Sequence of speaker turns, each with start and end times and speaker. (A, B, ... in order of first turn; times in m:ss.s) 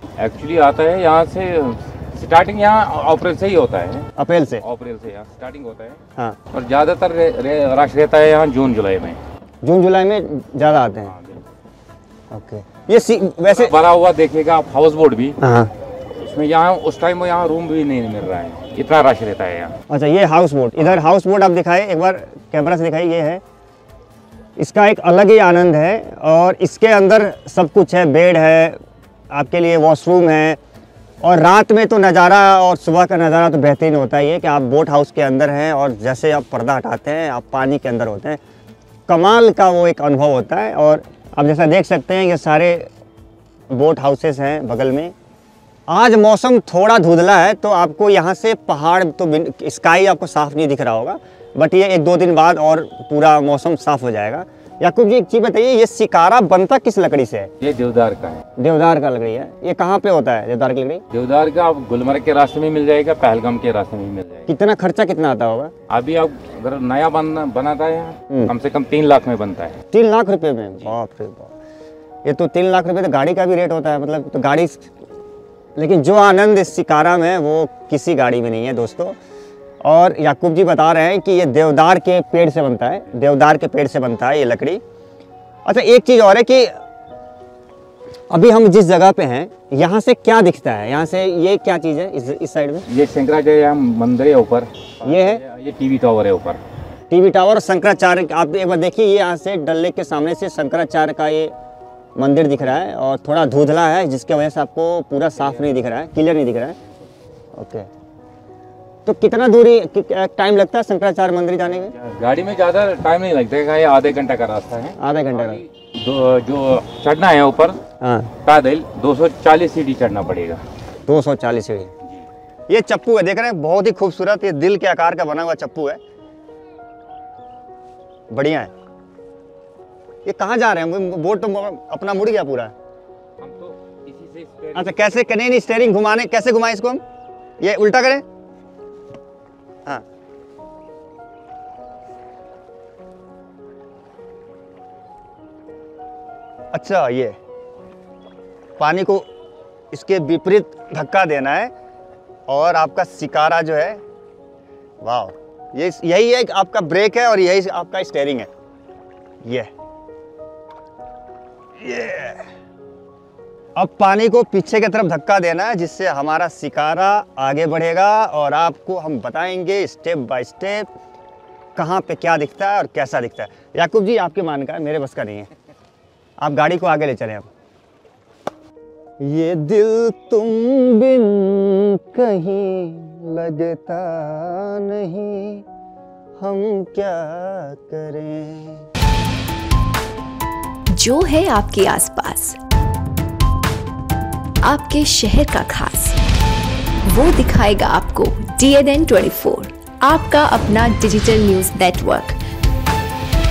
0:00.2-0:04.1 A
0:04.2-0:04.6 B
0:04.6-0:06.0 A
0:06.5-0:09.2 A
0:09.6-0:11.1 B
0:11.0-0:11.4 A
0:12.3-0:13.7 B
0:13.3-0:15.4 A
0:15.4-0:15.7 B
0:16.1-0:19.7 A
0:19.9-0:23.4 B
0:24.6-0:28.8 B
0:29.3-0:30.6 B
0:31.2-0:38.4 B
0:39.1-0:42.9 B
0:43.7-0:45.1 B
0:45.9-0:57.5 B
0:57.6-0:58.4 A
0:58.6-1:01.0 B
1:01.1-1:04.5 A
1:04.5-1:05.7 B
1:05.9-1:09.8 A
1:09.9-1:11.5 B
1:12.2-1:14.8 B
1:15.8-1:19.2 B
1:19.8-1:24.8 B
1:25.6-1:26.7 B
1:28.3-1:32.8 B
1:32.9-1:36.6 A
1:35.0-1:35.4 B
1:37.1-1:41.5 B
1:42.2-1:46.8 B
1:47.5-1:47.9 B
1:49.0-1:51.9 B
1:51.9-1:57.8 A
1:55.0-1:55.6 B
1:58.0-1:58.3 B
1:58.4-2:00.6 A
2:01.1-2:01.9 B
2:02.7-2:06.0 B
2:08.3-2:08.7 B
2:10.2-2:12.7 B
2:13.4-2:15.3 A
2:14.7-2:17.0 B
2:17.6-2:18.2 B
2:26.7-2:27.4 B
2:28.8-2:29.3 B
2:29.9-2:31.7 B
2:32.5-2:34.0 B
2:35.0-2:38.5 B
2:39.4-2:39.7 B
2:41.8-2:42.5 B
2:43.7-2:50.9 B
2:51.8-2:55.5 B
2:56.4-2:57.5 B
2:59.2-3:05.6 B
3:06.4-3:08.8 B
3:10.9-3:12.6 C
3:14.6-3:16.2 C
3:17.0-3:22.4 C